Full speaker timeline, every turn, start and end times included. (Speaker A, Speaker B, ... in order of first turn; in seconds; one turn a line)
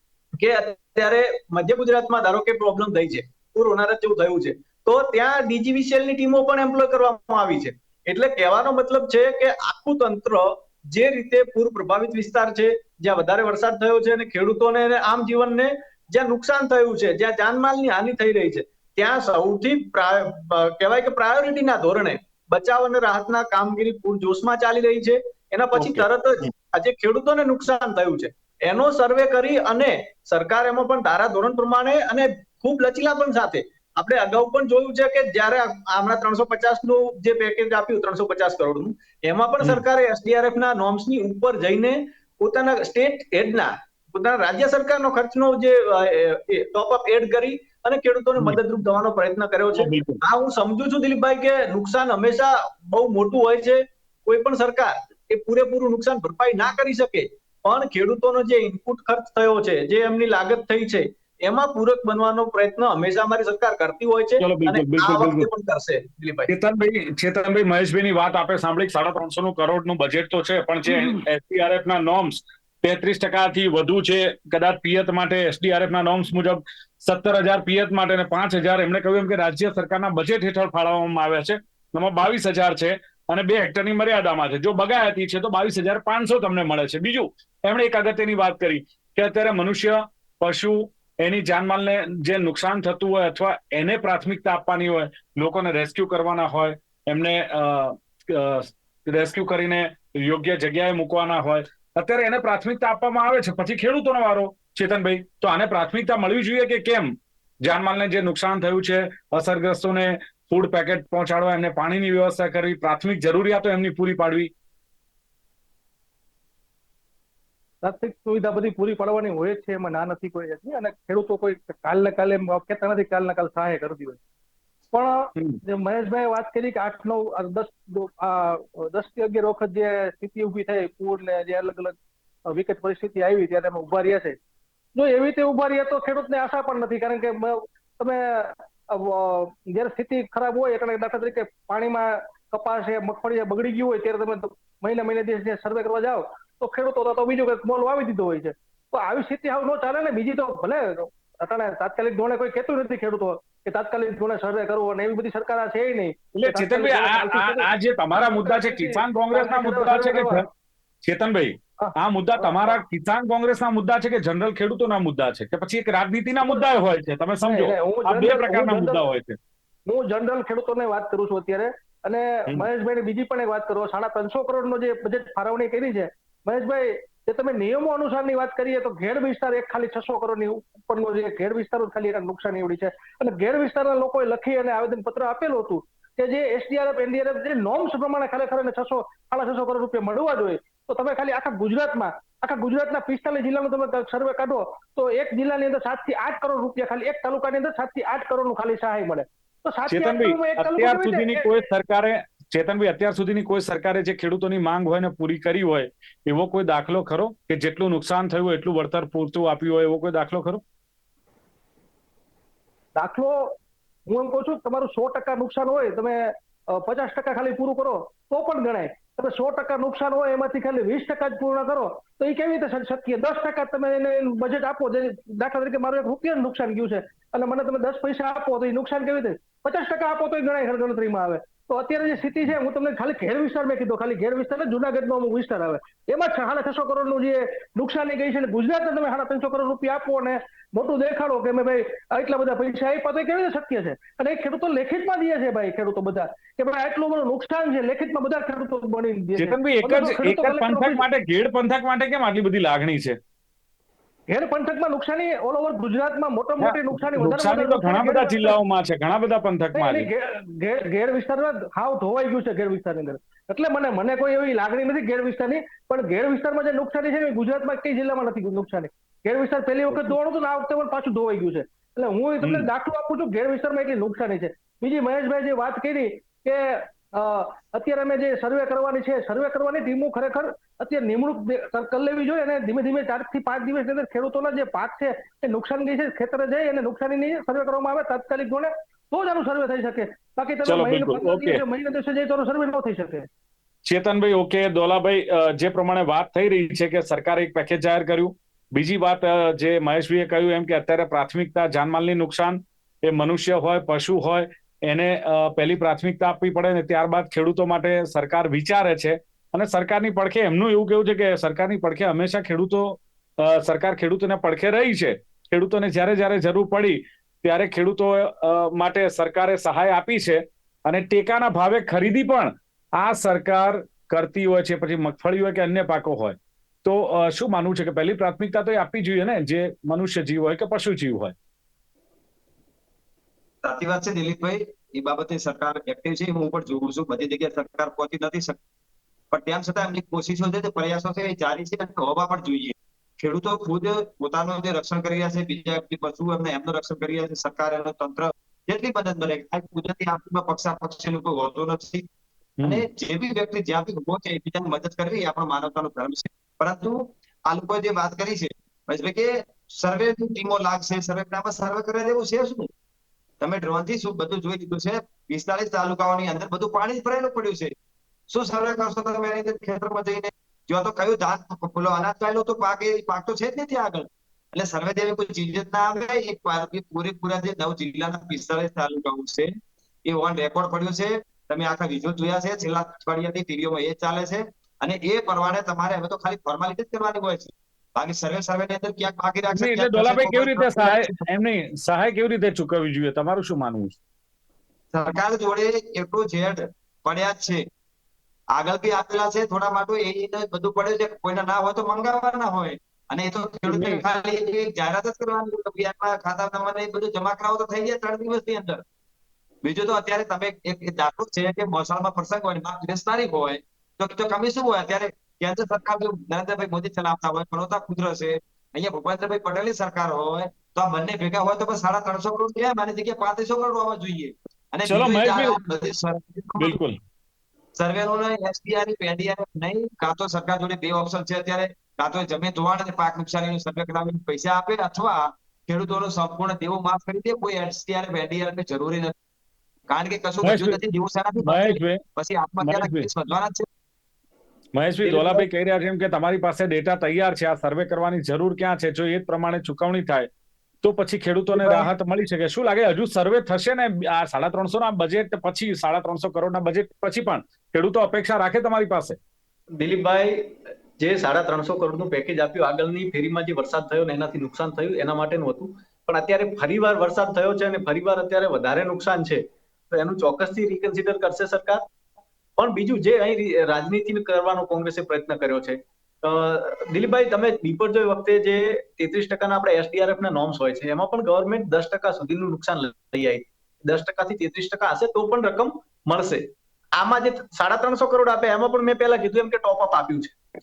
Speaker A: 0.4-66.5
Speaker B: 25.8-26.1
Speaker B: 49.8-50.2
Speaker B: 64.4-65.5
Speaker B: 66.5-114.5
Speaker A: 70.9-71.2
Speaker C: 117.8-124.2
Speaker C: 124.9-132.0
Speaker C: 132.5-134.4
Speaker C: 135.0-160.4
Speaker B: 156.4-160.4
Speaker B: 161.0-169.4
Speaker C: 161.8-162.8
Speaker C: 167.4-169.0
Speaker C: 169.9-201.7
Speaker B: 199.9-210.6
Speaker C: 213.0-213.5
Speaker C: 214.1-251.1
Speaker B: 249.4-253.2
Speaker C: 254.3-258.6
Speaker B: 256.6-260.1
Speaker C: 259.8-293.3
Speaker B: 272.4-272.7
Speaker B: 290.7-291.6
Speaker B: 293.9-331.3
Speaker D: 333.6-338.6
Speaker D: 339.3-352.1
Speaker D: 352.6-362.7
Speaker D: 363.4-367.8
Speaker D: 368.3-379.5
Speaker D: 380.0-391.3
Speaker B: 389.5-394.0
Speaker D: 394.9-397.6
Speaker D: 398.5-408.8
Speaker B: 403.7-404.0
Speaker D: 409.6-426.8
Speaker B: 424.9-425.6
Speaker B: 426.6-427.0
Speaker D: 427.8-439.1
Speaker D: 439.9-443.7
Speaker B: 440.4-440.8
Speaker B: 441.4-442.0
Speaker B: 442.6-443.1
Speaker B: 444.8-450.3
Speaker D: 445.0-445.5
Speaker B: 450.8-459.2
Speaker A: 459.8-471.8
Speaker A: 472.6-490.4